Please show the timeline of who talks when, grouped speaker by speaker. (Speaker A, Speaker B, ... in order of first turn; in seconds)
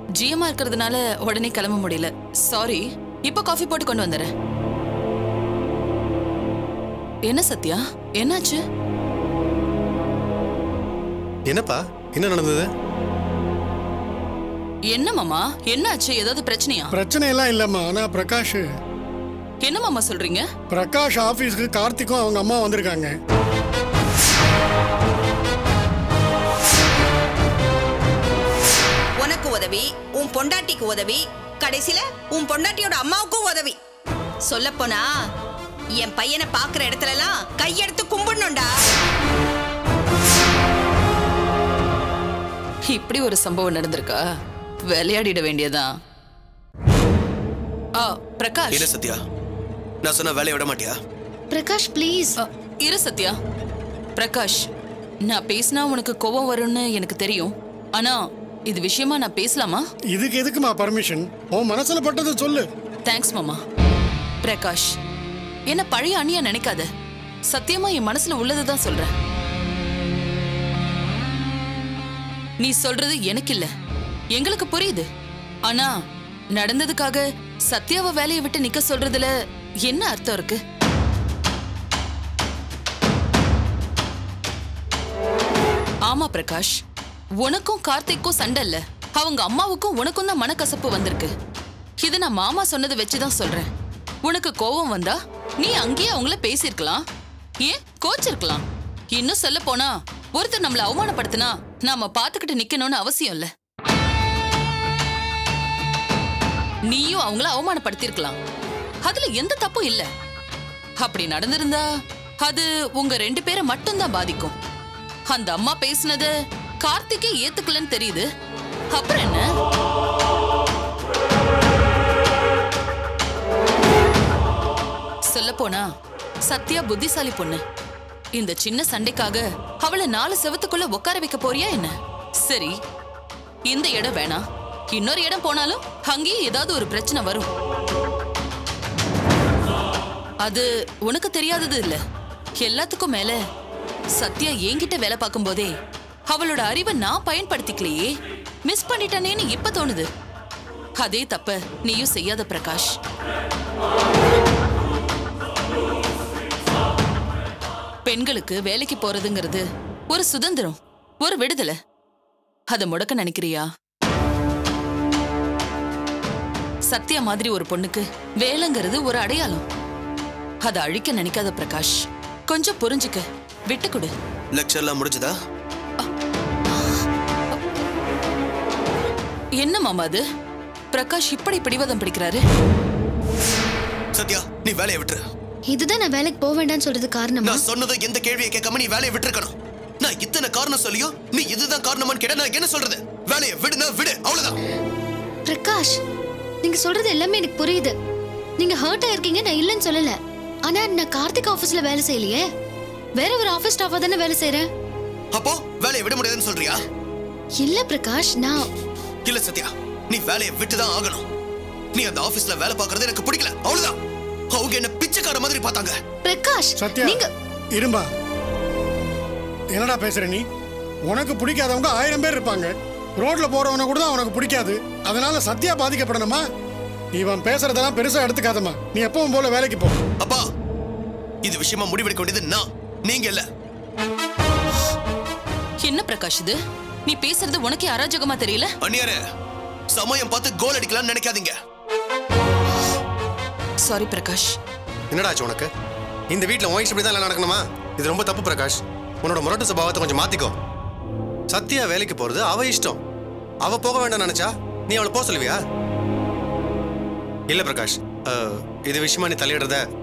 Speaker A: 0.2-4.3, 7.3-8.6, 14.9-16.9, 19.6-20.5, 42.9-44.2, 44.9-45.9, 48.0-48.9, 52.4-53.4, 54.2-54.7, 55.3-59.9, 63.1-63.6, 64.4-65.0, 65.7-66.9, 67.5-69.1, 72.6-73.7, 74.3-75.1, 75.7-75.9, 76.5-79.3, 79.8-80.6, 86.1-86.8, 87.4-91.3, 92.0-93.7, 94.2-97.0, 97.6-103.5, 106.9-108.4, 109.0-110.1, 111.0-111.9, 112.4-114.5, 115.3-116.3, 116.8-118.3, 118.9-119.5, 125.3-125.9, 126.5-127.6, 128.4-132.8, 133.7-137.5, 140.4-142.0, 142.6-143.4, 144.2-145.7, 146.3-148.1, 148.7-150.1, 151.0-152.9, 158.1-161.8, 162.7-163.7, 166.9-169.6, 170.7-174.1, 179.6-180.2, 180.9-182.4, 235.8-238.7, 243.8-244.5
Speaker B: 11.5-12.7, 245.1-245.7, 246.3-250.5, 251.5-253.0, 253.6-255.6, 257.5-259.8
Speaker C: 16.9-18.7, 20.7-23.1, 60.1-62.7, 216.8-217.2, 217.8-218.1, 219.7-220.5, 221.1-226.4, 227.2-230.0
Speaker D: 29.2-33.8, 34.5-35.1, 36.0-38.7
Speaker E: 48.7-49.2, 50.0-51.0, 174.5-175.3, 184.2-185.2, 187.4-194.6, 205.3-206.8, 209.3-211.2, 211.9-214.0, 214.5-216.0, 231.4-233.4, 238.8-239.2, 239.9-241.5
Speaker F: 51.5-52.3, 185.7-187.7, 195.5-196.0, 196.6-197.9, 198.6-202.5, 203.2-204.7, 207.6-208.7, 216.2-217.3